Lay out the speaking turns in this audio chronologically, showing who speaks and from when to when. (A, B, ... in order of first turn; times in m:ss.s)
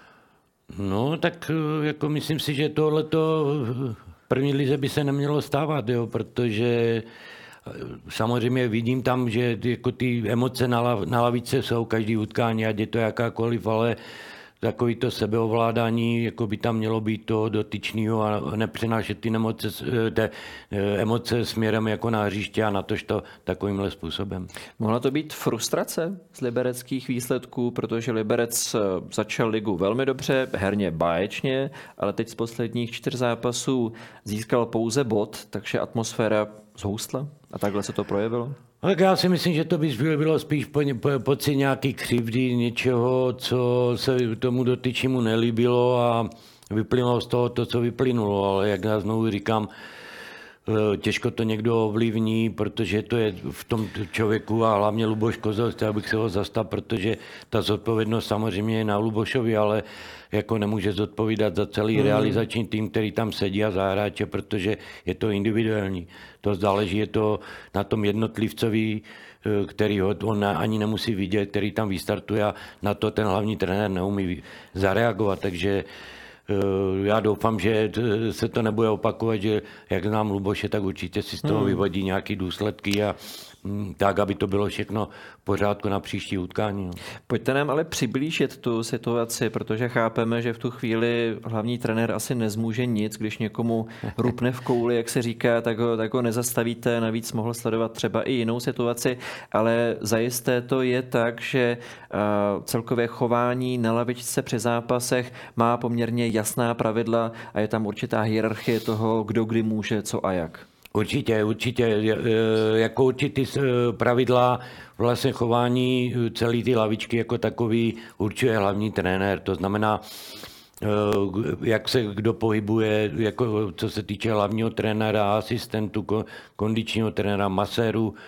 0:00.7-0:07.0 A
0:07.7-0:14.0 A
0:14.6-0:24.5 A
0:24.8-0:38.6 B
0:38.8-0:49.7 A
0:50.6-1:15.8 A
1:01.9-1:02.4 B
1:16.5-1:27.0 A
1:21.4-1:21.8 B
1:27.3-1:50.6 B
1:50.9-2:00.0 A
2:00.8-2:08.1 A